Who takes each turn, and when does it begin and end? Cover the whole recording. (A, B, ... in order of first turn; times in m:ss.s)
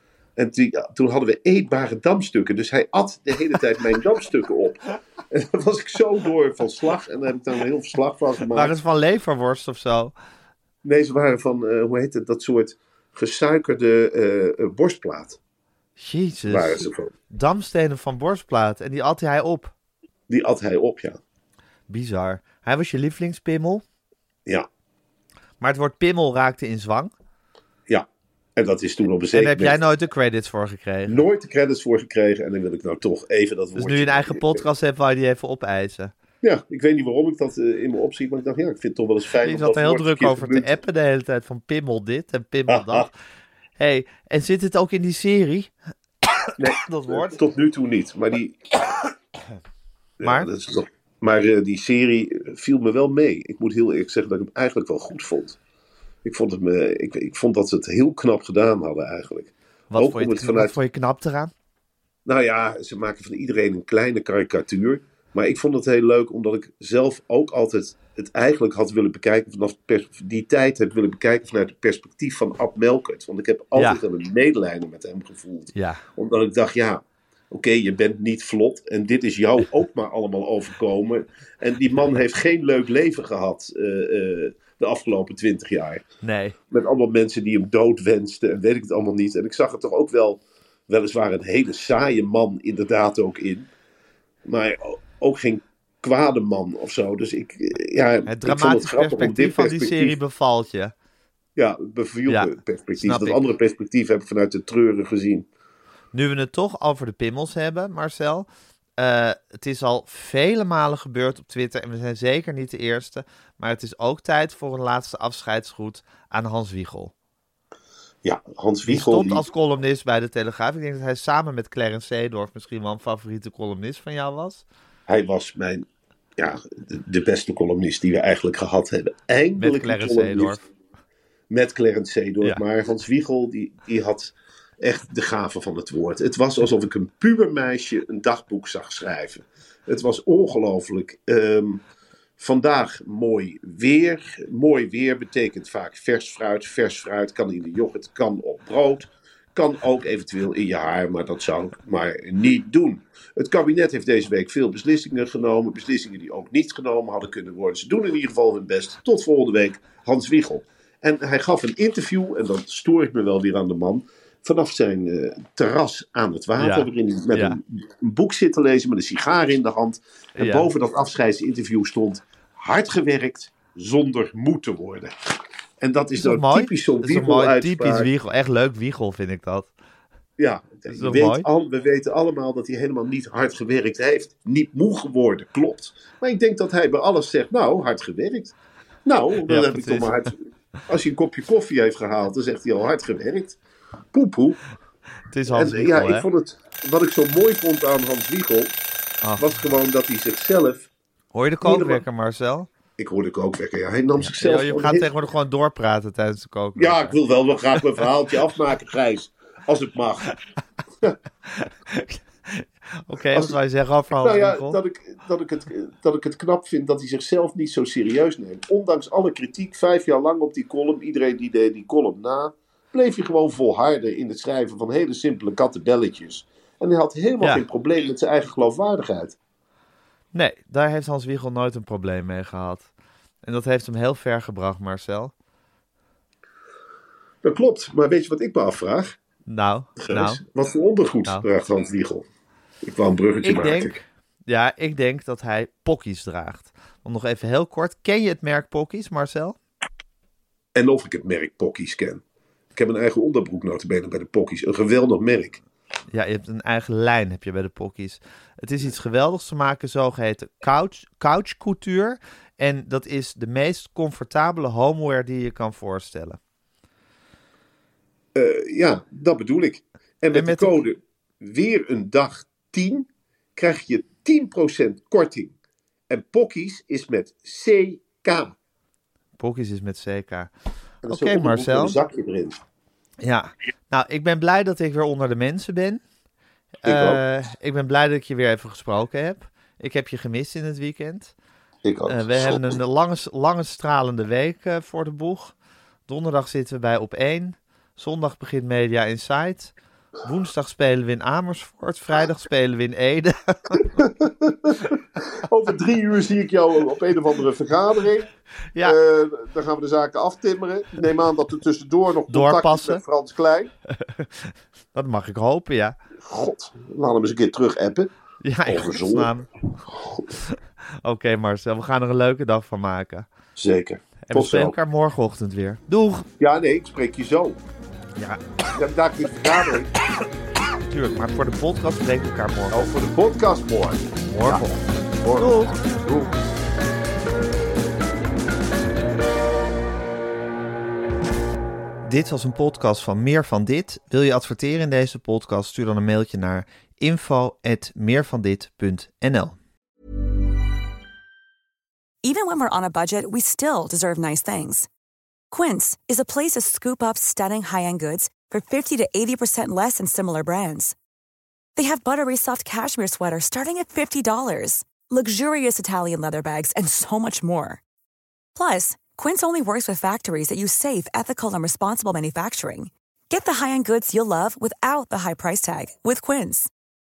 0:00.4-0:08.8 A
0:08.5-0:10.2 B
0:10.8-0:15.4 A
0:16.0-0:19.7 B
0:16.5-0:17.1 A
0:20.3-0:21.2 A
0:21.9-0:23.8 B
0:25.6-0:27.1 B
0:28.6-0:29.8 A
0:29.3-0:31.2 B
0:31.1-0:34.6 A
0:33.8-0:36.1 B
0:36.4-0:40.8 A
0:39.4-0:43.1 B
0:42.7-0:43.1 A
0:43.8-0:47.4 B
0:46.6-0:49.1 A
0:50.2-0:55.6 A
0:50.2-0:50.5 B
0:56.2-1:00.8 A
0:59.9-1:01.5 B
1:02.3-1:26.0 A
1:13.8-1:14.0 B
1:15.7-1:16.0 B
1:26.2-1:26.6 B
1:26.7-1:33.7 A
1:34.5-1:40.2 A
1:38.3-1:40.9 B
1:41.6-1:45.5 A
1:42.3-1:43.4 B
1:46.1-1:57.1 B
1:58.2-1:59.4 A
1:58.9-2:04.6 B
2:05.1-2:05.8 A
2:06.4-2:10.6 A
2:09.6-2:10.6 B
2:11.5-2:21.8 A
2:22.4-2:55.1 A
2:46.6-2:47.6 B
2:50.4-2:50.7 B
2:55.8-2:58.1 A
2:56.2-2:59.7 B
3:00.4-3:08.6 A
3:00.9-3:01.5 B
3:09.1-3:10.4 A
3:09.5-3:10.3 B
3:10.9-3:13.6 A
3:14.1-3:14.6 A
3:15.3-3:16.3 B
3:15.5-3:18.8 A
3:19.2-3:19.6 B
3:19.4-3:20.9 A
3:21.3-3:22.7 B
3:21.6-3:22.0 A
3:23.0-3:25.1 A
3:24.2-3:27.2 B
3:26.8-3:30.3 A
3:31.6-3:34.8 B
3:33.3-3:33.6 A
3:34.2-3:49.4 A
3:50.3-3:52.9 B
3:53.4-3:55.3 B
3:57.4-3:59.2 A
3:59.5-4:00.4 B
4:00.0-4:02.3 A
4:02.8-4:04.0 A
4:03.4-4:09.6 B
4:10.8-4:12.2 A
4:12.8-4:15.6 A
4:16.1-4:26.4 B
4:28.4-4:35.6 A
4:30.3-4:30.8 B
4:36.1-4:38.6 A
4:39.4-4:40.5 B
4:41.0-4:42.6 A
4:41.1-4:42.0 B
4:43.2-4:46.0 B
4:46.8-4:47.2 A
4:46.8-4:51.3 B
4:51.8-4:52.8 A
4:52.1-4:55.6 B
4:56.1-4:59.7 B
5:00.2-5:03.8 B
5:04.0-5:04.7 A
5:05.5-5:08.3 A
5:08.8-5:13.7 A
5:12.3-5:13.0 B
5:14.0-5:16.0 B
5:16.3-5:18.1 A
5:18.4-5:19.5 B
5:18.6-5:19.3 A
5:19.9-5:20.3 A
5:20.4-5:23.3 B
5:23.6-5:24.8 A
5:24.2-5:26.3 B
5:26.4-5:27.6 A
5:28.2-5:28.4 B
5:28.7-5:29.9 A
5:30.8-5:32.9 B
5:32.7-5:36.3 A
5:34.2-5:35.8 B
5:42.0-5:49.6 B
5:52.2-5:54.9 C
5:55.5-6:01.0 C
6:01.8-6:07.8 C
6:08.6-6:16.7 C